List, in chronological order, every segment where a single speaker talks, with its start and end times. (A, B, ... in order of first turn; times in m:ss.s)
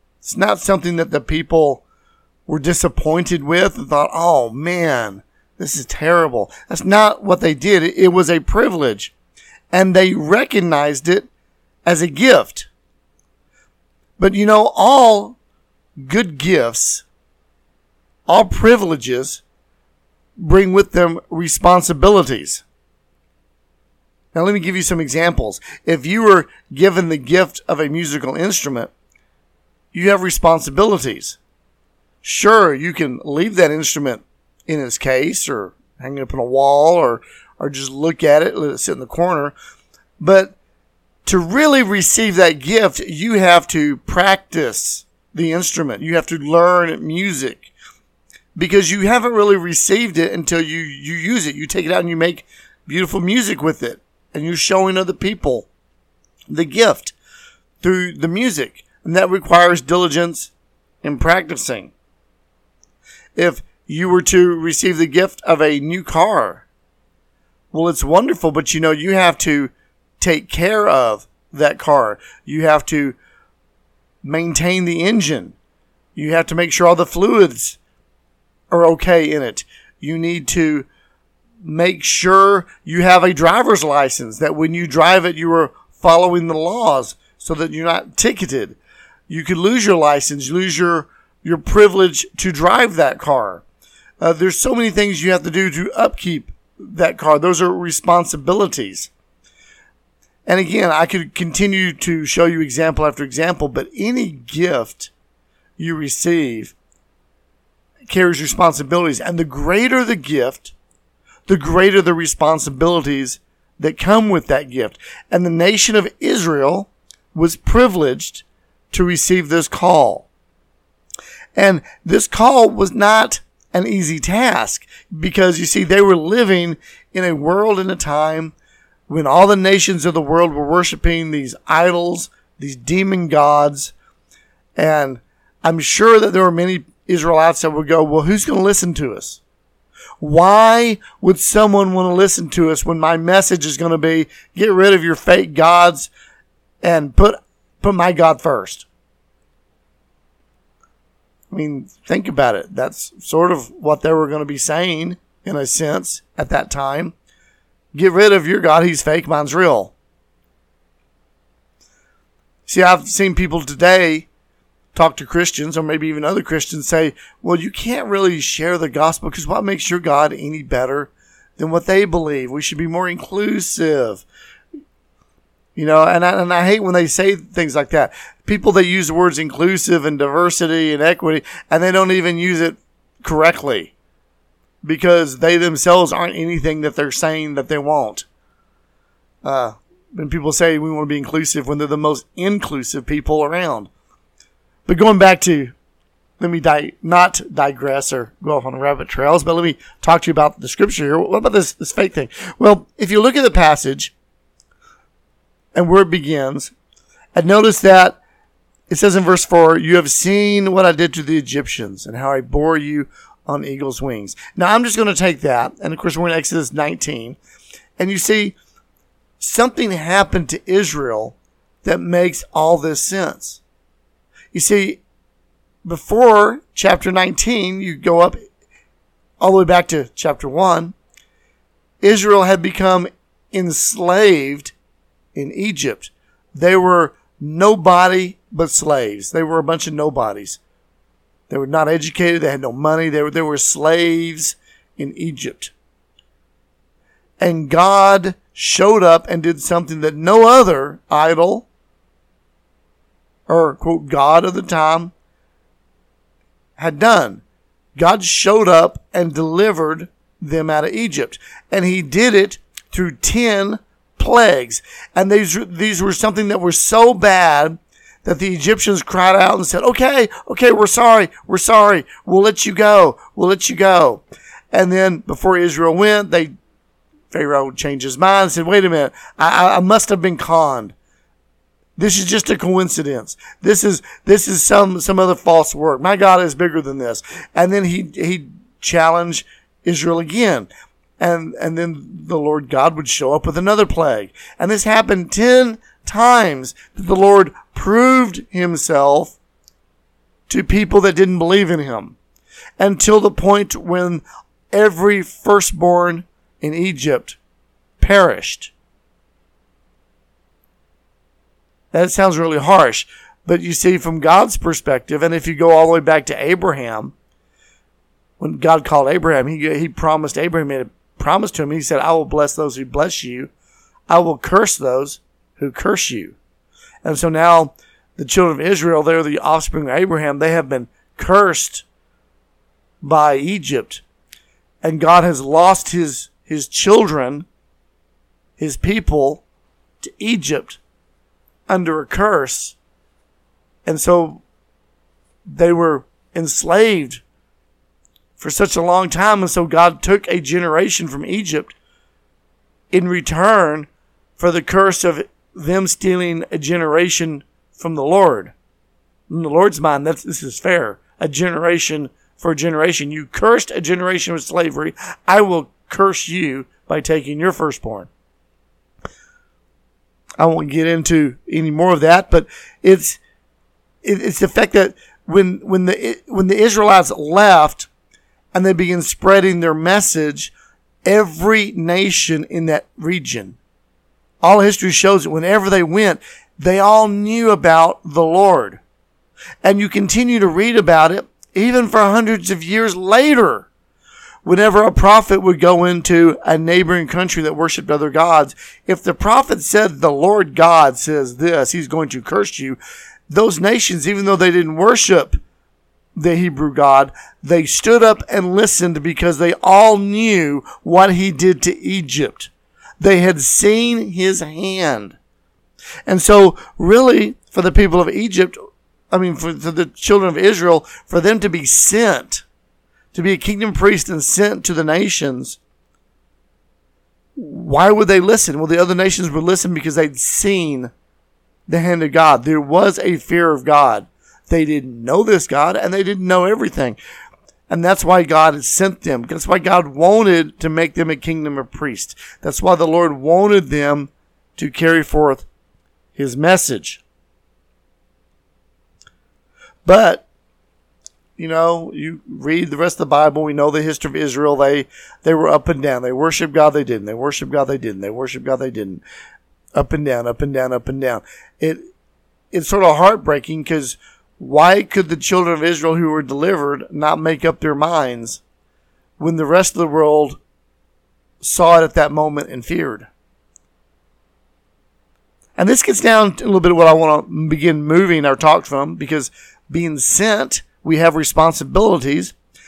0:00.2-0:01.8 A
0:02.5-0:09.1 A
0:09.7-0:11.3 A
0:11.8-0:12.7 A
0:14.2-0:15.4 A
0:16.0-0:17.0 A
0:18.3-0:19.4 A
0:20.4-0:22.6 A
0:24.3-0:28.9 A
0:29.9-0:31.4 A
0:32.2-0:39.5 A
0:40.2-0:40.6 A
0:41.2-0:47.7 A
0:48.6-0:55.7 A
0:56.5-0:57.1 A
0:57.8-1:00.5 A
1:01.0-1:01.9 A
1:03.3-1:06.6 A
1:07.7-1:13.2 A
1:14.2-1:15.5 A
1:16.2-1:17.8 A
1:18.7-1:20.9 A
1:21.6-1:28.8 A
1:29.3-1:33.6 A
1:34.2-1:39.1 A
1:40.4-1:45.1 A
1:45.8-1:46.7 A
1:48.1-1:50.7 A
1:51.5-2:00.3 A
2:01.5-2:08.5 A
2:09.1-2:13.9 A
2:14.8-2:19.4 A
2:20.2-2:26.1 A
2:26.8-2:28.9 A
2:31.5-2:37.1 A
2:37.9-2:39.9 A
2:42.6-2:44.3 A
2:44.9-2:54.2 A
2:55.8-3:03.9 A
3:04.8-3:08.2 A
3:09.4-3:13.9 A
3:14.8-3:15.7 A
3:16.4-3:24.1 A
3:25.7-3:26.7 A
3:27.3-3:28.2 A
3:28.9-3:37.4 A
3:38.0-3:38.6 A
3:39.4-3:43.6 A
3:44.5-3:45.0 A
3:45.8-3:48.4 A
3:49.4-3:51.0 A
3:52.0-3:54.7 A
3:55.3-4:00.6 A
4:01.5-4:05.7 A
4:07.4-4:11.7 A
4:13.5-4:15.1 A
4:16.8-4:17.4 A
4:18.0-4:36.5 A
4:37.3-4:40.9 A
4:42.0-4:50.7 A
4:51.2-4:59.4 A
5:00.5-5:02.2 A
5:02.8-5:07.4 A
5:08.0-5:08.7 A
5:11.9-5:17.1 A
5:18.4-5:23.5 A
5:24.1-5:26.4 A
5:27.0-5:31.8 A
5:33.0-5:34.0 A
5:34.8-5:37.4 A
5:38.6-5:39.4 A
5:40.0-5:40.8 A
5:41.7-5:42.8 A
5:43.8-5:44.4 A
5:45.5-5:47.2 A
5:48.4-5:51.8 A
5:52.9-5:58.5 A
5:59.3-6:08.1 A
6:10.4-6:13.2 A
6:14.0-6:17.9 A
6:18.5-6:20.5 A
6:21.0-6:23.6 A
6:24.4-6:28.8 A
6:29.6-6:33.7 A
6:34.4-6:42.8 A
6:43.3-6:45.4 A
6:46.2-6:55.2 A
6:56.1-6:58.6 A
6:59.1-7:02.4 A
7:03.1-7:05.6 A
7:07.4-7:10.9 A
7:11.7-7:17.0 A
7:17.7-7:25.5 A
7:26.2-7:27.0 A
7:29.8-7:30.2 A
7:31.4-7:39.0 A
7:39.7-7:41.8 A
7:42.5-7:48.4 A
7:49.2-7:50.4 A
7:51.4-7:53.1 A
7:55.6-8:02.3 A